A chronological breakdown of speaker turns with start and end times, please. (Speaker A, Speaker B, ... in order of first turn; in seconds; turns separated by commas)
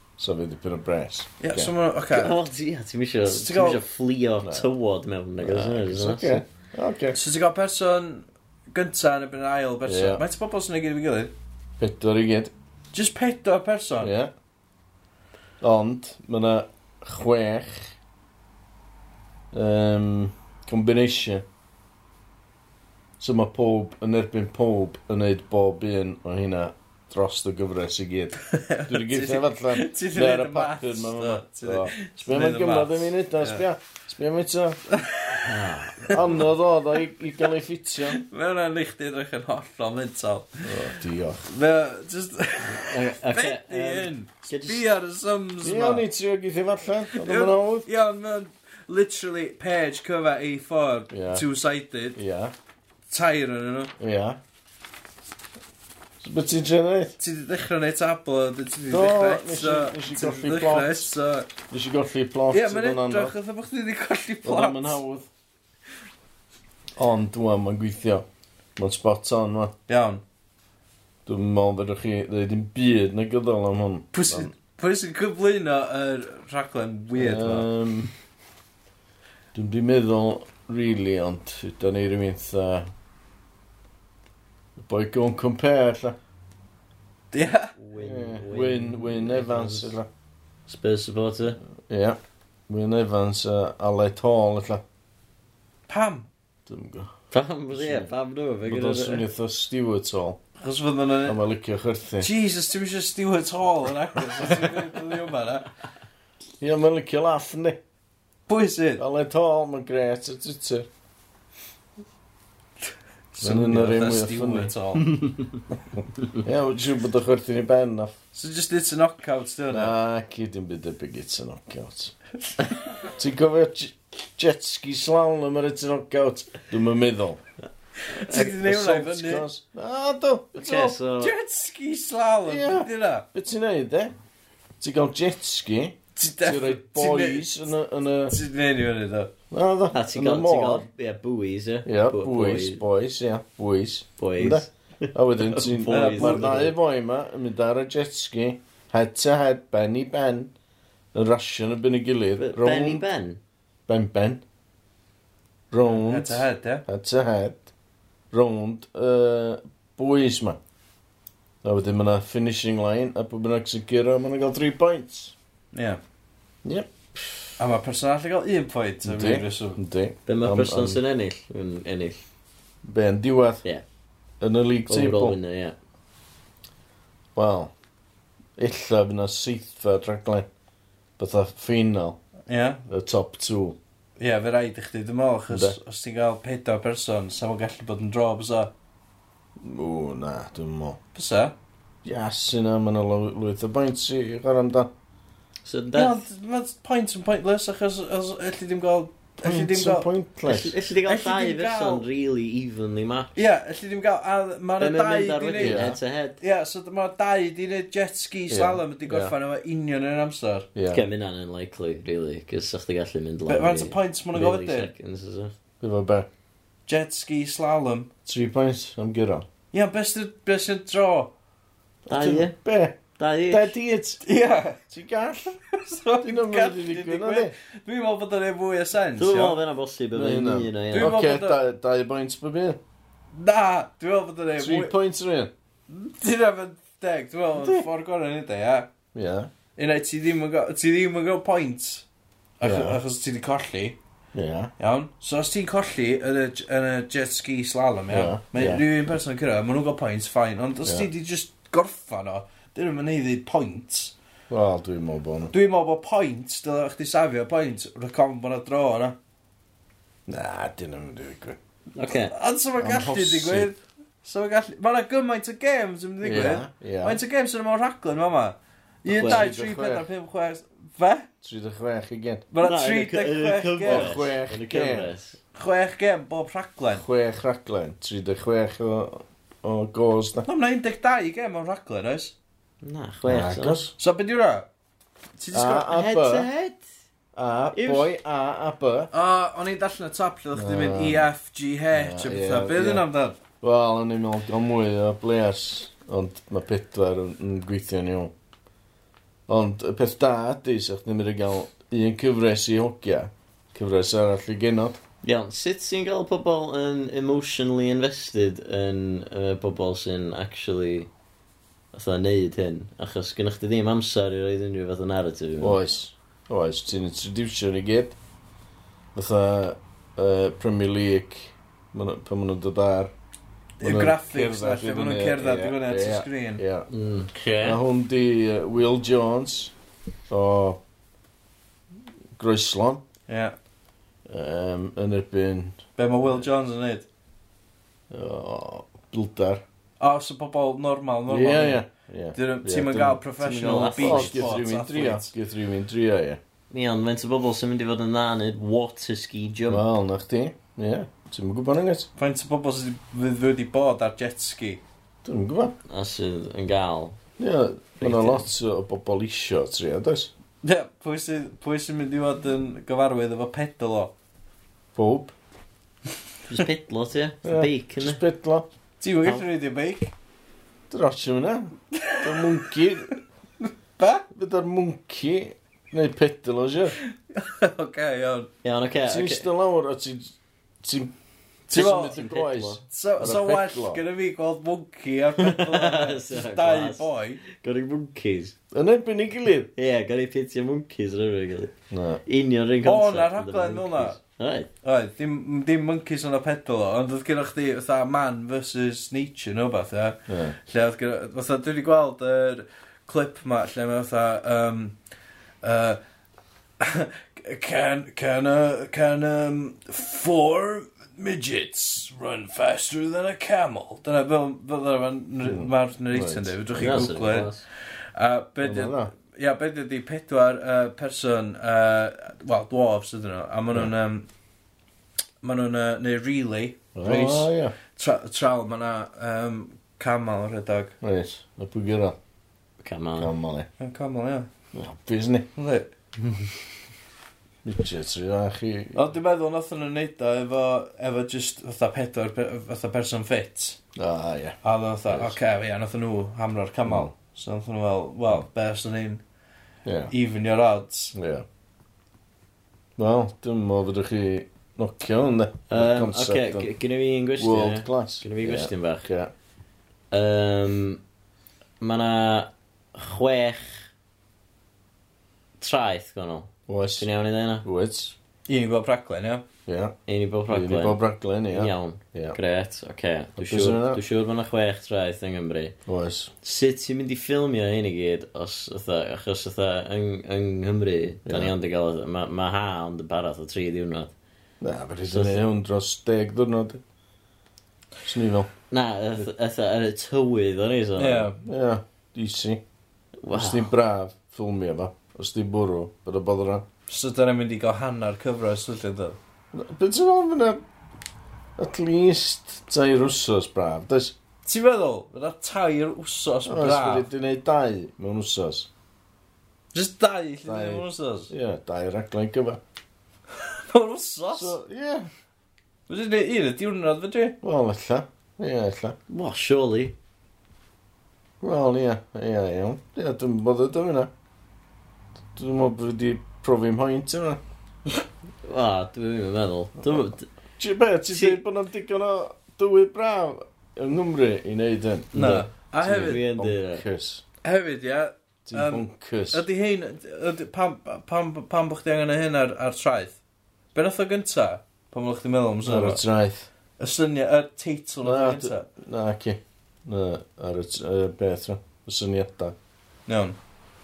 Speaker A: 0.2-1.7, Speaker B: 1.4-2.4, Speaker C: 2.1-6.4, Speaker B: 3.2-3.8, Speaker A: 4.4-4.7, Speaker A: 5.4-7.2, Speaker B: 7.1-11.3, Speaker A: 9.8-10.2, Speaker A: 11.8-12.5, Speaker B: 12.9-14.1, Speaker A: 14.0-14.3, Speaker A: 15.6-17.9, Speaker A: 19.5-21.4, Speaker A: 23.2-34.8, Speaker B: 28.5-33.6, Speaker B: 34.9-36.4, Speaker C: 35.4-36.2, Speaker A: 36.1-38.2, Speaker B: 38.0-46.0, Speaker A: 40.6-41.5, Speaker C: 42.6-44.8, Speaker A: 45.6-47.9, Speaker B: 47.1-52.2, Speaker A: 51.1-51.4, Speaker A: 52.1-52.5, Speaker B: 53.1-53.9, Speaker A: 54.0-54.4, Speaker A: 56.2-57.1, Speaker B: 57.2-61.5, Speaker A: 58.9-61.1, Speaker A: 61.7-63.3, Speaker B: 62.5-65.0, Speaker A: 64.4-65.3, Speaker A: 67.0-68.2, Speaker A: 68.8-69.7, Speaker B: 69.9-70.2, Speaker A: 71.2-74.5, Speaker B: 74.1-77.7, Speaker A: 77.1-78.1, Speaker A: 79.5-82.9, Speaker A: 84.8-86.2, Speaker B: 87.3-87.7, Speaker C: 87.8-89.9, Speaker A: 88.0-90.1, Speaker C: 90.7-91.6, Speaker A: 91.8-94.8, Speaker B: 95.9-96.3, Speaker A: 96.7-97.1, Speaker C: 97.3-99.2, Speaker A: 97.7-98.1, Speaker A: 98.6-100.4, Speaker B: 100.6-101.4, Speaker A: 101.2-102.3, Speaker B: 102.2-105.7, Speaker A: 106.6-107.8, Speaker B: 108.5-109.0, Speaker A: 109.0-110.9, Speaker B: 113.3-115.2, Speaker A: 113.4-114.7, Speaker A: 116.4-118.2, Speaker B: 118.3-119.9, Speaker A: 119.7-122.1, Speaker A: 123.1-127.4, Speaker B: 128.1-129.5, Speaker A: 128.2-131.0, Speaker C: 130.5-131.3, Speaker B: 131.2-133.2, Speaker A: 132.4-134.1, Speaker A: 134.8-138.4, Speaker B: 136.2-137.7, Speaker B: 138.3-139.3, Speaker A: 139.5-140.9, Speaker C: 139.9-142.8, Speaker A: 141.8-150.5, Speaker C: 144.2-146.7, Speaker B: 145.9-146.7, Speaker A: 151.1-153.0, Speaker C: 152.4-153.4, Speaker A: 153.9-154.4, Speaker A: 155.7-157.7, Speaker B: 155.8-156.8, Speaker A: 158.3-160.6, Speaker A: 161.6-165.3, Speaker B: 165.7-166.0, Speaker A: 166.6-167.5, Speaker B: 167.6-169.8, Speaker A: 169.0-171.0, Speaker C: 170.2-172.2, Speaker A: 172.8-173.6, Speaker A: 174.4-175.4, Speaker C: 174.9-175.8, Speaker A: 177.3-177.7, Speaker A: 178.6-180.5, Speaker A: 181.2-182.2, Speaker B: 182.5-182.8, Speaker A: 182.9-183.8, Speaker B: 184.2-188.7, Speaker A: 185.5-185.8, Speaker A: 189.6-191.0, Speaker B: 191.1-191.5, Speaker A: 192.0-194.9, Speaker C: 195.6-196.2, Speaker B: 195.9-200.1, Speaker A: 199.4-200.8, Speaker C: 200.4-203.4, Speaker B: 201.1-202.1, Speaker B: 203.3-210.7, Speaker C: 204.8-206.4, Speaker A: 205.6-206.0, Speaker A: 208.5-209.3, Speaker A: 210.7-211.0, Speaker C: 210.9-215.5, Speaker B: 213.5-214.9, Speaker A: 215.8-216.3, Speaker B: 216.9-218.1, Speaker A: 218.2-219.4, Speaker B: 219.7-221.3, Speaker A: 222.1-224.2, Speaker C: 222.1-222.5, Speaker C: 223.2-223.7, Speaker B: 224.2-224.8, Speaker A: 224.9-225.5, Speaker B: 225.7-229.6, Speaker A: 226.2-227.5, Speaker C: 229.2-231.2, Speaker A: 230.1-232.8, Speaker B: 230.9-231.6, Speaker B: 233.3-234.9, Speaker A: 234.6-235.5, Speaker B: 235.9-238.9, Speaker A: 237.5-237.8, Speaker A: 239.1-239.5, Speaker B: 239.8-242.0, Speaker B: 242.6-244.0, Speaker A: 242.6-243.0, Speaker A: 244.3-244.7, Speaker B: 244.8-254.1, Speaker A: 248.1-248.8, Speaker A: 254.5-255.5, Speaker B: 255.5-259.1, Speaker A: 260.3-261.6, Speaker C: 261.9-262.3, Speaker B: 262.3-271.3, Speaker A: 262.8-263.7, Speaker A: 266.2-267.2, Speaker C: 269.1-269.5, Speaker A: 269.1-270.1, Speaker A: 271.4-272.5, Speaker B: 272.5-274.3, Speaker C: 272.6-275.4, Speaker A: 273.8-275.1, Speaker B: 275.5-277.0, Speaker A: 276.9-280.5, Speaker B: 280.4-282.3, Speaker C: 282.8-283.8, Speaker A: 283.2-283.9, Speaker B: 284.0-284.7, Speaker B: 285.4-285.9, Speaker A: 285.5-286.5, Speaker C: 285.9-286.8, Speaker A: 287.4-289.1, Speaker C: 287.7-288.1, Speaker B: 289.1-293.4, Speaker A: 290.5-291.3, Speaker A: 291.9-293.0, Speaker A: 293.6-298.3, Speaker A: 299.5-305.0, Speaker C: 305.2-311.1, Speaker C: 311.9-315.8, Speaker A: 315.6-318.1, Speaker A: 319.1-323.1, Speaker B: 323.8-326.6, Speaker A: 323.8-326.9, Speaker C: 326.9-327.8, Speaker A: 327.6-329.7, Speaker A: 330.3-330.8, Speaker A: 332.4-333.0, Speaker B: 333.3-333.5, Speaker A: 334.3-335.8, Speaker B: 336.0-337.1, Speaker A: 338.1-339.6, Speaker B: 340.0-345.3, Speaker A: 341.3-343.2, Speaker C: 343.4-344.6, Speaker A: 343.8-346.4, Speaker C: 346.7-349.8, Speaker A: 349.7-352.1, Speaker B: 352.2-354.8, Speaker A: 355.2-355.7, Speaker C: 355.9-357.2, Speaker A: 357.4-360.3, Speaker C: 358.0-358.4, Speaker B: 360.6-364.1, Speaker A: 364.9-365.3, Speaker C: 366.5-368.2, Speaker A: 367.4-368.6, Speaker B: 369.0-370.1, Speaker A: 370.9-373.2, Speaker B: 371.9-372.8, Speaker B: 373.6-374.2, Speaker A: 374.3-377.0, Speaker B: 377.1-378.5, Speaker C: 378.6-379.5, Speaker A: 379.0-381.1, Speaker B: 381.7-382.2, Speaker A: 381.7-384.0, Speaker C: 381.9-382.8, Speaker B: 382.9-387.4, Speaker C: 385.4-388.5, Speaker A: 388.7-389.7, Speaker C: 389.7-394.7, Speaker A: 391.9-392.2, Speaker B: 392.8-394.2, Speaker B: 394.8-404.9, Speaker A: 400.3-400.6, Speaker B: 405.6-406.0, Speaker B: 406.8-417.6, Speaker A: 415.4-417.0, Speaker C: 416.7-417.6, Speaker B: 418.1-424.2, Speaker A: 418.6-419.1, Speaker B: 425.4-430.9, Speaker A: 426.9-427.7, Speaker A: 431.0-432.1, Speaker C: 432.8-433.3, Speaker A: 433.2-433.7, Speaker B: 433.8-434.5, Speaker A: 434.7-435.5, Speaker B: 435.6-435.9, Speaker A: 437.6-439.0, Speaker B: 438.9-443.8, Speaker A: 443.9-444.6, Speaker B: 444.6-449.2, Speaker A: 445.1-445.4, Speaker A: 446.9-447.1, Speaker A: 449.8-450.1, Speaker B: 450.1-451.1, Speaker A: 451.1-451.4, Speaker A: 453.0-456.7, Speaker C: 455.7-459.1, Speaker A: 457.4-459.3, Speaker C: 460.1-461.0, Speaker C: 461.8-463.9, Speaker C: 465.6-467.6, Speaker A: 466.7-467.1, Speaker A: 467.6-468.1, Speaker B: 468.5-469.4, Speaker A: 469.6-469.9, Speaker C: 470.1-475.8, Speaker A: 470.5-472.4, Speaker A: 473.4-474.0, Speaker A: 475.9-476.3, Speaker C: 476.4-484.1, Speaker A: 481.2-481.5, Speaker A: 484.6-486.8, Speaker C: 485.1-485.4, Speaker A: 488.0-488.5, Speaker C: 488.7-491.3, Speaker B: 491.0-491.4, Speaker A: 491.4-492.6, Speaker C: 493.2-493.7, Speaker A: 493.3-496.6, Speaker B: 496.9-499.2, Speaker A: 499.5-500.6, Speaker A: 501.6-504.1, Speaker B: 504.4-507.1, Speaker A: 506.4-508.7, Speaker B: 509.7-511.3, Speaker A: 510.4-512.6, Speaker B: 513.4-514.5, Speaker A: 514.3-515.1, Speaker B: 515.9-517.4, Speaker A: 517.4-519.0, Speaker C: 519.1-519.9, Speaker A: 521.4-524.1, Speaker A: 525.3-527.4, Speaker C: 528.4-530.3, Speaker A: 530.6-537.2, Speaker C: 531.1-531.4, Speaker B: 535.1-536.2, Speaker C: 535.2-536.8, Speaker B: 537.4-543.1, Speaker A: 538.5-539.4, Speaker B: 543.7-546.0, Speaker A: 545.6-546.5, Speaker B: 546.8-548.6, Speaker A: 548.0-552.5, Speaker B: 553.1-553.4